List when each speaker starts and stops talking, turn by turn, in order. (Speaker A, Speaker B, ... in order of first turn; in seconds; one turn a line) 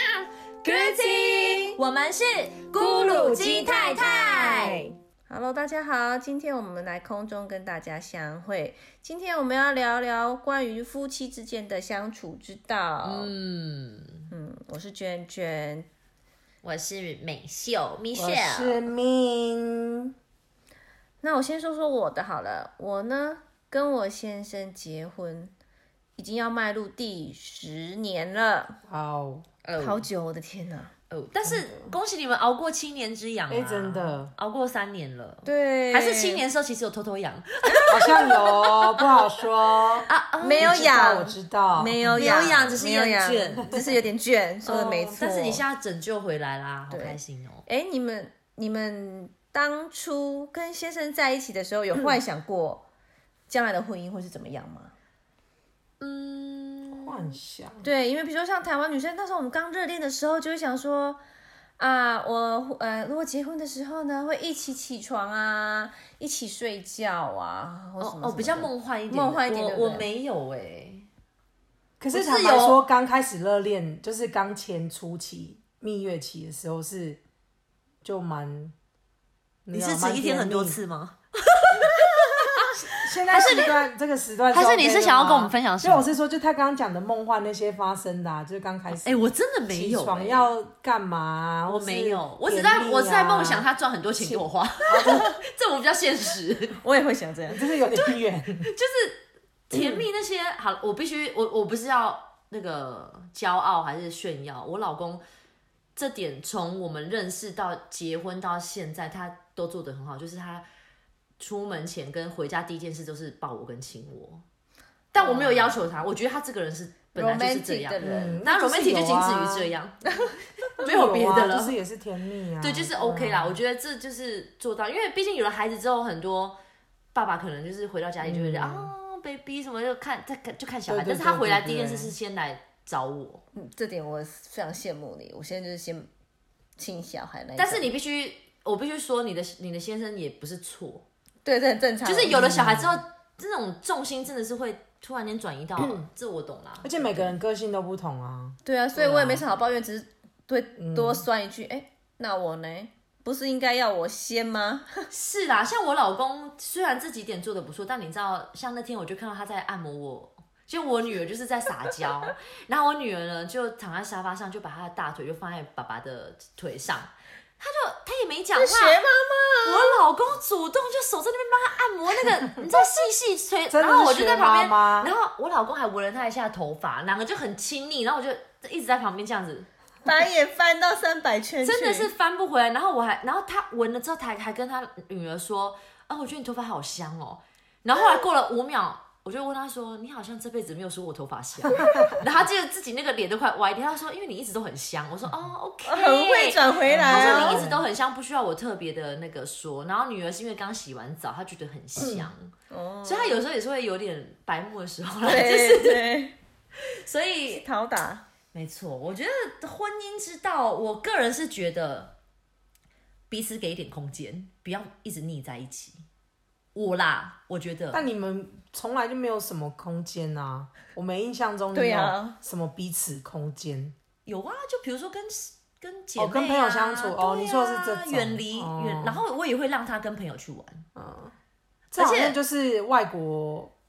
Speaker A: 0.7-4.8
Speaker B: 0.7-1.8
Speaker B: 2.8-13.3
Speaker A: 13.0-14.3
Speaker B: 14.3-15.9
Speaker A: 16.6-18.9
Speaker C: 18.1-20.1
Speaker B: 21.2-25.5
Speaker B: 26.2-28.8
Speaker C: 28.9-29.5
Speaker A: 29.6-30.1
Speaker B: 29.8-30.9
Speaker A: 31.1-39.2
Speaker C: 31.4-31.9
Speaker C: 33.5-34.3
Speaker B: 35.5-36.4
Speaker B: 37.6-38.4
Speaker C: 37.9-40.1
Speaker A: 40.1-40.9
Speaker B: 40.4-45.6
Speaker C: 40.6-42.8
Speaker A: 42.1-43.9
Speaker C: 43.6-43.9
Speaker C: 44.7-45.0
Speaker A: 44.7-47.7
Speaker B: 46.9-52.9
Speaker B: 53.5-55.0
Speaker A: 56.0-57.3
Speaker C: 56.9-57.9
Speaker B: 57.8-61.2
Speaker B: 61.8-70.1
Speaker A: 68.0-71.1
Speaker C: 72.0-77.2
Speaker A: 72.1-72.8
Speaker C: 78.0-78.7
Speaker C: 79.7-80.8
Speaker A: 79.7-83.8
Speaker C: 82.8-93.7
Speaker A: 84.5-86.1
Speaker A: 88.9-90.5
Speaker A: 91.7-96.8
Speaker B: 94.2-95.3
Speaker C: 94.9-95.3
Speaker B: 96.8-97.7
Speaker C: 97.5-98.7
Speaker A: 97.9-105.2
Speaker C: 99.7-100.1
Speaker A: 106.0-110.7
Speaker A: 111.4-114.4
Speaker A: 115.1-120.0
Speaker B: 115.2-115.5
Speaker B: 117.2-118.4
Speaker C: 118.0-119.7
Speaker A: 120.6-121.8
Speaker C: 120.8-123.6
Speaker A: 122.6-126.6
Speaker A: 127.1-133.4
Speaker C: 128.2-128.9
Speaker C: 130.9-132.2
Speaker B: 133.5-136.1
Speaker B: 136.8-137.9
Speaker A: 137.6-141.1
Speaker B: 141.4-142.5
Speaker A: 142.1-147.2
Speaker C: 142.3-143.0
Speaker C: 145.8-146.1
Speaker C: 146.8-148.6
Speaker B: 148.7-155.1
Speaker A: 149.0-149.5
Speaker C: 150.8-151.2
Speaker A: 155.1-169.0
Speaker B: 168.5-170.0
Speaker A: 169.7-179.7
Speaker C: 173.7-175.1
Speaker B: 180.1-182.1
Speaker A: 181.6-202.5
Speaker C: 191.7-192.2
Speaker B: 195.9-197.6
Speaker C: 196.9-197.9
Speaker C: 202.0-202.3
Speaker B: 202.7-203.4
Speaker A: 203.1-206.2
Speaker B: 205.2-206.4
Speaker A: 206.8-207.7
Speaker B: 207.5-208.2
Speaker A: 208.5-212.1
Speaker A: 213.3-216.0
Speaker A: 216.8-218.0
Speaker C: 217.9-223.9
Speaker B: 221.7-222.4
Speaker A: 224.3-230.9
Speaker C: 226.2-229.2
Speaker C: 231.0-231.3
Speaker A: 231.9-232.4
Speaker C: 231.9-233.7